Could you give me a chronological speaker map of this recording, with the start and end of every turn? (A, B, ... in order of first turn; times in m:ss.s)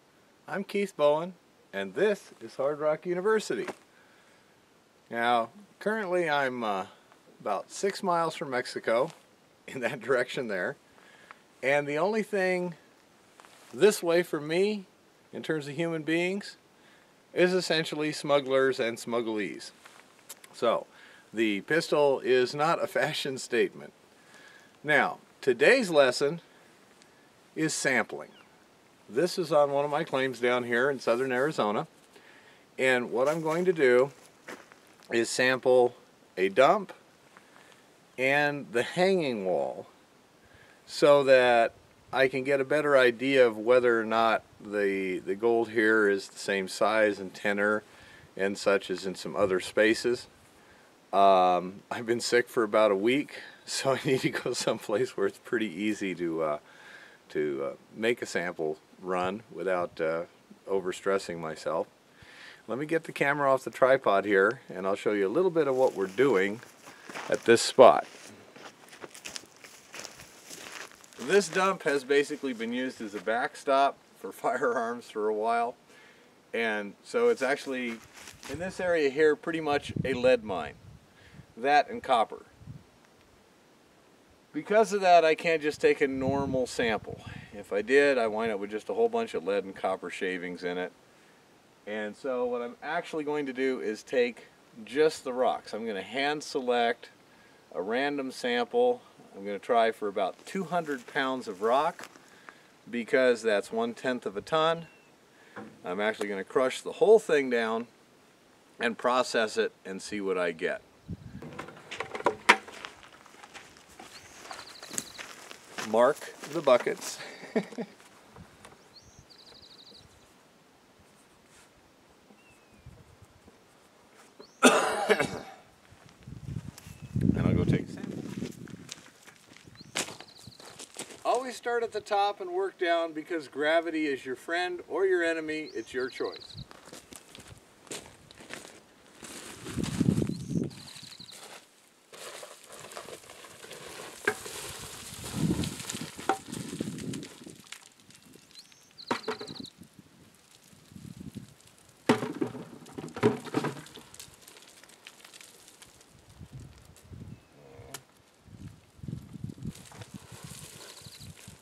0:00.5-0:03.7 A
0:05.1-0:09.1 A
0:09.7-0:10.8 A
0:11.6-0:12.8 A
0:13.7-0:16.6 A
0:17.3-0:19.7 A
0:20.5-0:24.0 A
0:24.8-0:26.4 A
0:27.5-0:28.4 A
0:29.1-0:31.9 A
0:32.8-0:34.1 A
0:35.1-0:37.0 A
0:38.2-0:39.9 A
0:40.8-0:50.3 A
0:51.1-0:56.6 A
0:57.3-1:01.9 A
1:02.7-1:06.6 A
1:07.3-1:08.1 A
1:11.2-1:15.8 A
1:16.5-1:20.8 A
1:21.5-1:22.5 A
1:24.5-1:30.9 A
1:31.8-1:37.1 A
1:37.7-1:42.1 A
1:42.9-1:44.9 A
1:45.8-1:47.9 A
1:48.8-1:50.8 A
1:55.8-1:57.8 A
2:04.6-2:05.2 A
2:07.3-2:08.3 A
2:11.2-2:16.6 A